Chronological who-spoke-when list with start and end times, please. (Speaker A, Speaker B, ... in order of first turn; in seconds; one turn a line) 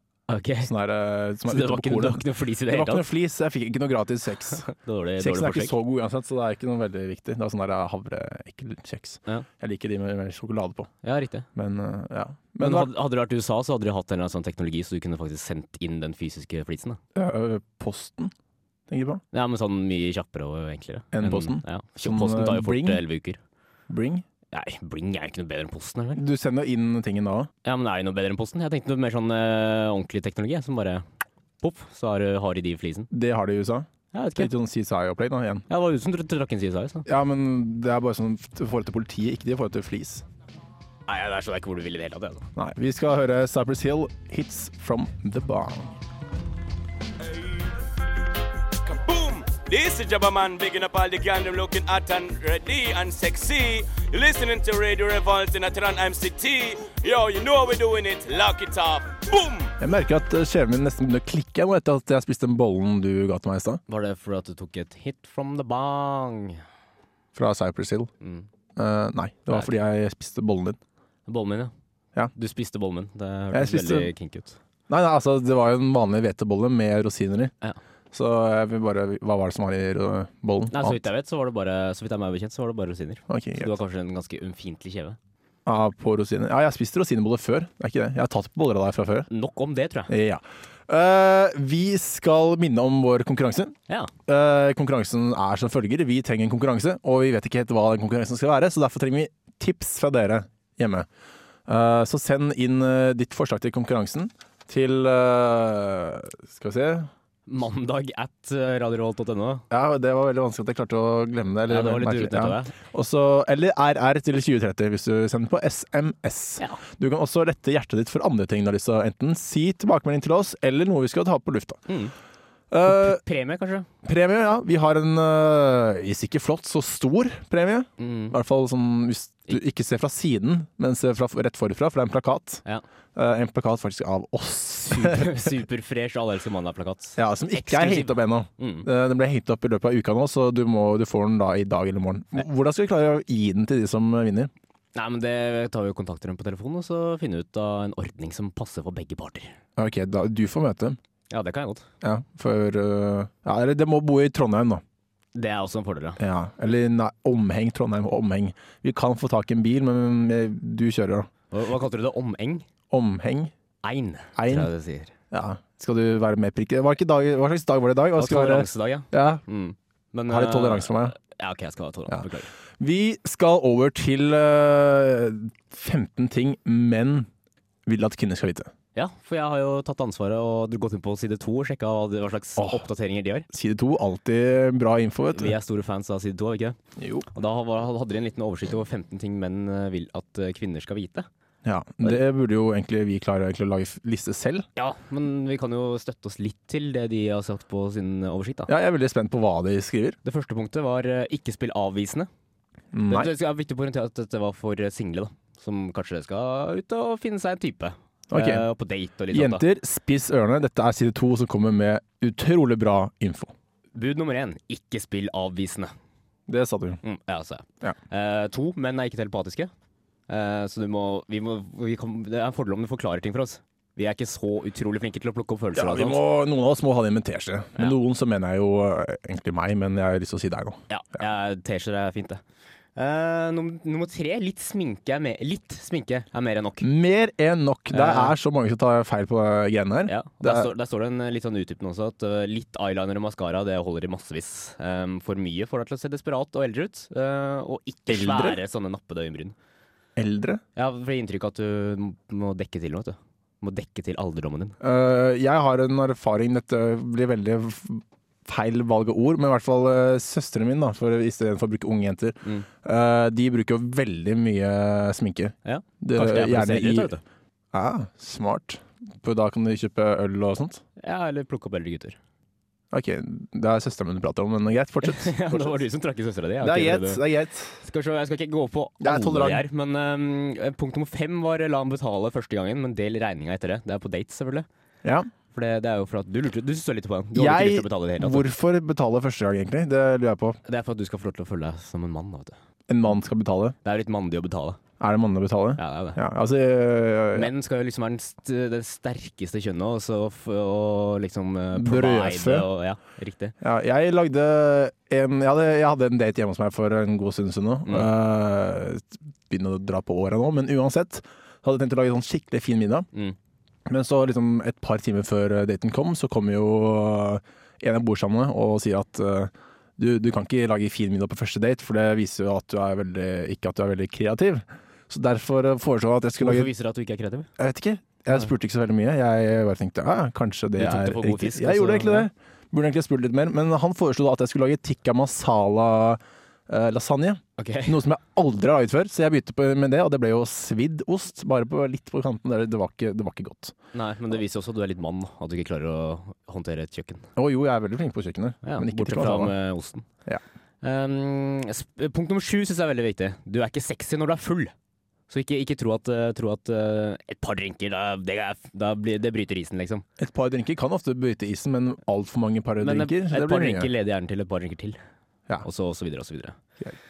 Speaker A: 0.3-0.7
Speaker B: 0.6-4.7
Speaker A: 1.4-3.1
Speaker A: 4.6-5.8
Speaker B: 5.2-10.9
Speaker A: 11.0-11.5
Speaker B: 11.5-12.9
Speaker A: 12.6-17.0
Speaker B: 17.1-18.3
Speaker B: 18.9-19.2
Speaker A: 19.3-23.4
Speaker B: 21.1-23.0
Speaker B: 23.9-24.2
Speaker A: 24.5-26.2
Speaker B: 26.1-27.5
Speaker A: 27.6-31.0
Speaker A: 31.6-33.1
Speaker B: 33.1-35.6
Speaker A: 34.1-34.5
Speaker A: 35.7-37.0
Speaker B: 37.0-40.2
Speaker A: 41.1-42.5
Speaker B: 42.5-46.0
Speaker C: 47.2-47.7
Speaker C: 48.8-59.7
Speaker B: 59.8-63.8
Speaker A: 63.9-66.6
Speaker B: 67.3-68.1
Speaker A: 68.2-68.5
Speaker B: 68.8-70.8
Speaker A: 71.3-71.7
Speaker A: 72.3-74.6
Speaker B: 73.5-74.1
Speaker B: 74.9-77.5
Speaker B: 78.1-81.0
Speaker A: 80.7-85.2
Speaker B: 83.3-83.7
Speaker B: 85.7-89.3
Speaker A: 89.3-90.1
Speaker B: 90.1-93.7
Speaker B: 94.3-101.1
Speaker B: 101.7-107.1
Speaker A: 107.5-109.6
Speaker B: 109.7-121.8
Speaker A: 111.7-112.7
Speaker A: 121.9-122.1
Speaker B: 122.7-123.2
Speaker A: 122.9-123.9
Speaker B: 124.0-132.6
Speaker A: 128.0-128.3
Speaker B: 133.1-135.6
Speaker A: 134.9-138.9
Speaker B: 137.2-144.5
Speaker A: 144.9-149.6
Speaker B: 149.8-151.0
Speaker A: 151.3-151.8
Speaker B: 152.0-154.8
Speaker A: 155.3-156.2
Speaker B: 156.2-161.3
Speaker A: 161.5-162.7
Speaker B: 162.9-163.5
Speaker A: 163.8-165.1
Speaker B: 164.3-164.7
Speaker B: 165.3-169.4
Speaker A: 168.2-172.5
Speaker B: 170.3-171.1
Speaker B: 172.8-177.3
Speaker B: 177.8-178.7
Speaker A: 178.9-183.5
Speaker B: 182.6-182.8
Speaker B: 183.5-185.5
Speaker A: 185.3-186.8
Speaker B: 187.0-187.3
Speaker A: 187.3-191.3
Speaker B: 191.6-194.7
Speaker A: 194.8-198.7
Speaker B: 198.7-200.2
Speaker A: 200.2-202.3
Speaker B: 202.9-203.3
Speaker A: 203.1-209.6
Speaker B: 208.3-208.6
Speaker B: 209.3-213.5
Speaker A: 213.9-215.9
Speaker B: 216.5-217.0
Speaker A: 217.0-219.7
Speaker A: 220.3-226.2
Speaker B: 225.7-230.8
Speaker A: 230.9-232.4
Speaker A: 232.9-236.9
Speaker B: 236.8-240.7
Speaker A: 237.9-238.3
Speaker A: 240.1-249.5
Speaker B: 248.1-248.6
Speaker B: 250.2-250.6
Speaker A: 250.8-254.8
Speaker B: 254.8-267.1
Speaker A: 265.6-267.2
Speaker B: 267.7-270.8
Speaker A: 271.0-272.2
Speaker B: 272.9-275.8
Speaker A: 275.0-277.2
Speaker B: 276.6-277.8
Speaker A: 277.8-284.6
Speaker B: 279.0-279.6
Speaker B: 285.0-285.3
Speaker A: 285.5-288.5
Speaker B: 287.3-290.6
Speaker A: 290.6-292.6
Speaker B: 292.9-293.7
Speaker A: 293.8-294.8
Speaker B: 295.0-297.5
Speaker A: 295.8-296.2
Speaker A: 297.3-303.5
Speaker B: 301.7-302.7
Speaker B: 303.6-313.1
Speaker B: 313.9-326.7
Speaker A: 326.4-327.5
Speaker B: 327.6-343.7
Speaker A: 330.8-332.3
Speaker A: 337.6-338.0
Speaker A: 343.9-347.3
Speaker B: 347.4-349.5
Speaker A: 348.6-350.1
Speaker A: 350.8-354.7
Speaker A: 355.3-360.0
Speaker B: 360.2-363.9
Speaker A: 362.8-365.0
Speaker A: 365.6-366.6